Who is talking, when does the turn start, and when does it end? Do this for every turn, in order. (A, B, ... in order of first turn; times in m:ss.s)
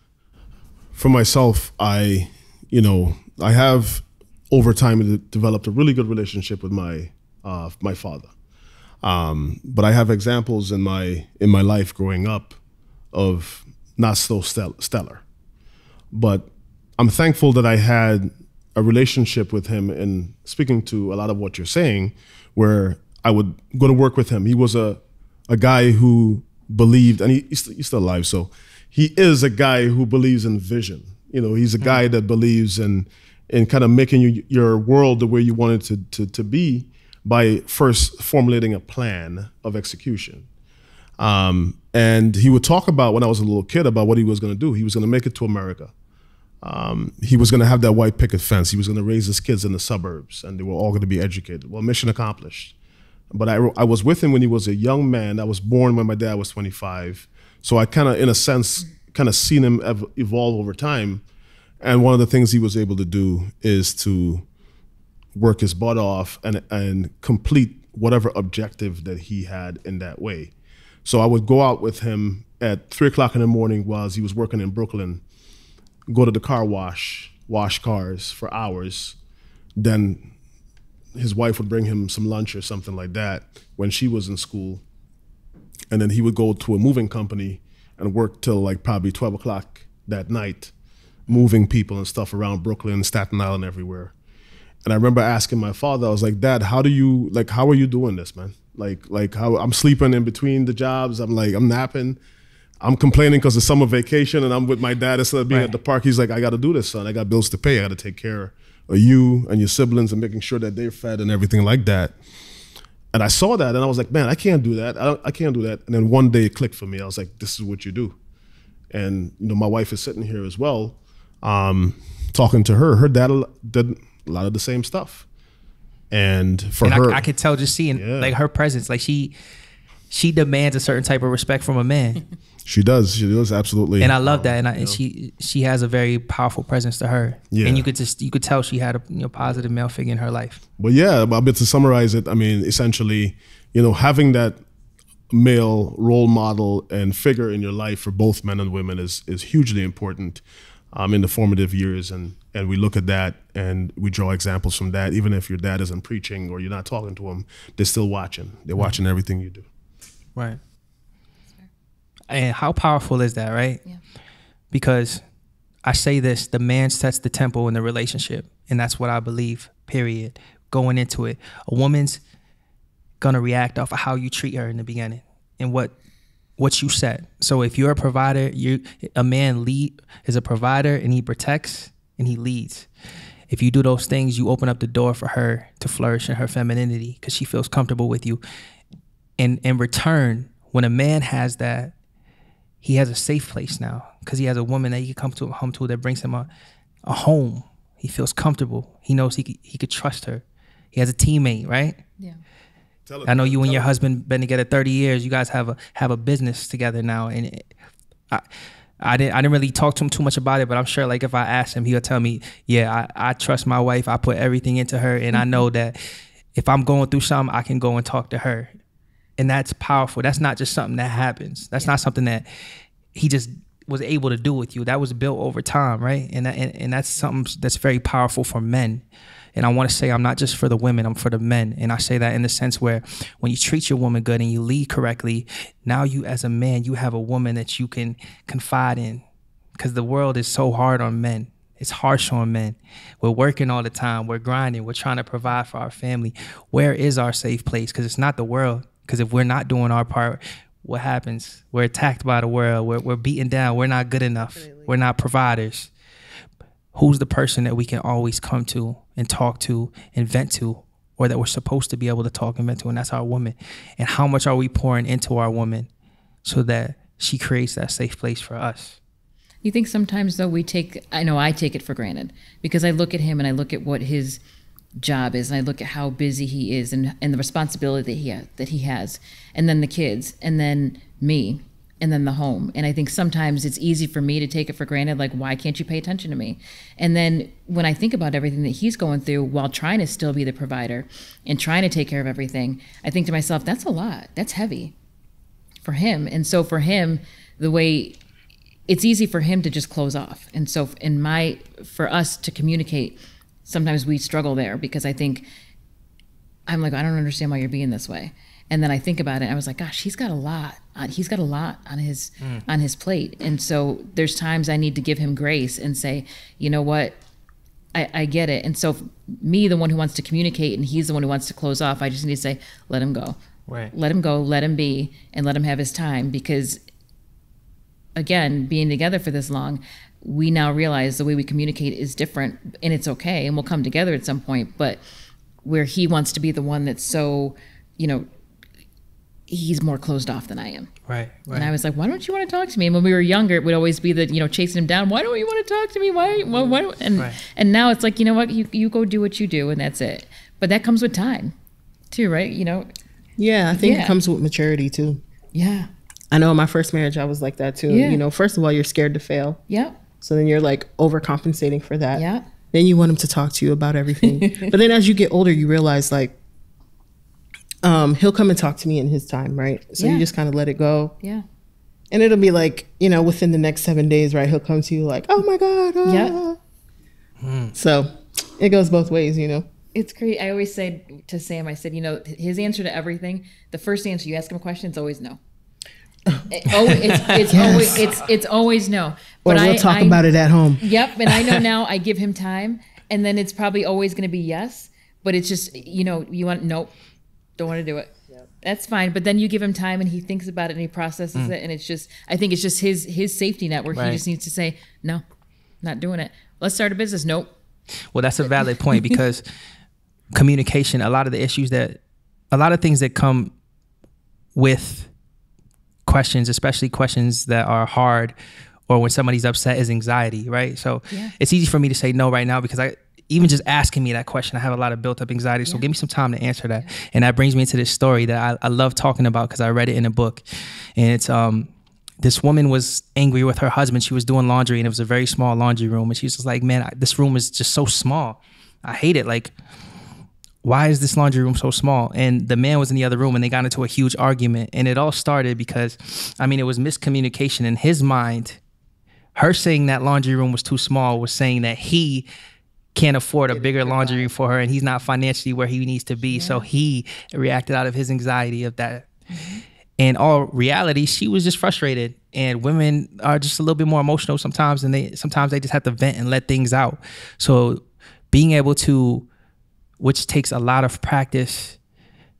0:01.0-0:08.3 A
0:09.0-0:12.6 A
0:13.1-0:15.2 A
0:16.1-0:40.4 A
0:41.2-0:45.9 A
0:46.6-0:52.7 A
0:53.3-1:01.2 A
1:01.8-1:04.4 A
1:05.3-1:10.5 A
1:11.0-1:15.2 A
1:16.1-1:19.2 A
1:19.8-1:20.3 A
1:21.1-1:24.8 A
1:25.9-1:30.7 A
1:31.3-1:34.1 A
1:34.8-1:42.2 A
1:42.8-1:52.1 A
1:53.1-1:58.2 A
1:58.9-2:05.2 A
2:06.1-2:07.2 A
2:06.8-2:09.3 B
2:07.9-2:08.3 A
2:10.1-2:12.2 B
2:12.6-2:15.0 A
2:14.0-2:20.6 B
2:17.5-2:17.9 A
2:20.8-2:24.6 A
2:25.3-2:39.6 A
2:42.3-2:43.8 B
2:44.7-2:45.2 B
2:45.8-2:52.2 B
2:53.2-2:55.9 B
2:56.6-3:02.9 B
3:03.5-3:08.4 B
3:09.4-3:11.9 B
3:12.8-3:16.5 B
3:17.0-3:22.0 B
3:23.1-3:23.9 A
3:23.2-3:27.7 B
3:29.0-3:36.0 B
3:35.3-3:35.6 C
3:36.5-3:38.7 B
3:39.4-3:42.5 B
3:43.1-3:49.0 B
3:49.5-3:59.2 B
3:59.8-4:15.9 B
4:14.6-4:14.9 D
4:16.9-4:25.9 B
4:26.4-4:29.0 B
4:29.6-4:34.4 C
4:35.0-4:54.9 C
4:55.8-4:58.2 C
4:58.9-5:05.5 C
5:06.7-5:17.2 C
5:17.9-5:23.4 C
5:23.7-5:23.9 B
5:23.9-5:26.8 C
5:28.2-5:35.0 C
5:35.6-5:38.3 C
5:39.5-5:40.9 C
5:41.1-5:41.7 B
5:41.5-5:51.5 C
5:52.1-5:52.9 C
5:53.4-5:55.2 D
5:53.8-5:54.2 C
5:55.5-5:55.9 C
5:56.3-5:59.6 D
5:57.9-5:58.2 C
5:59.7-6:00.0 C
6:00.2-6:06.4 D
6:02.1-6:02.4 C
6:04.2-6:04.7 C
6:07.8-6:11.2 D
6:10.0-6:10.2 C
6:12.1-6:16.6 D
6:16.0-6:16.4 C
6:17.4-6:17.7 B
6:17.7-6:19.7 D
6:19.9-6:25.4 C
6:26.5-6:30.2 C
6:26.8-6:27.3 B
6:27.5-6:28.1 D
6:29.4-6:30.8 D
6:30.8-6:36.9 C
6:37.6-6:45.2 C
6:43.9-6:44.2 B
6:45.8-6:47.5 C
6:48.1-6:49.4 B
6:50.3-6:52.0 B
6:52.5-6:53.5 B
6:54.6-6:55.1 B
6:56.0-6:58.3 B
6:58.9-7:10.4 B
7:01.1-7:01.3 C
7:11.0-7:11.7 B
7:12.2-7:19.5 B
7:20.6-7:28.6 B
7:29.4-7:32.3 B
7:32.9-7:39.1 B
7:36.3-7:36.6 C
7:39.3-7:39.6 C
7:40.0-7:49.3 B
7:50.0-7:51.8 B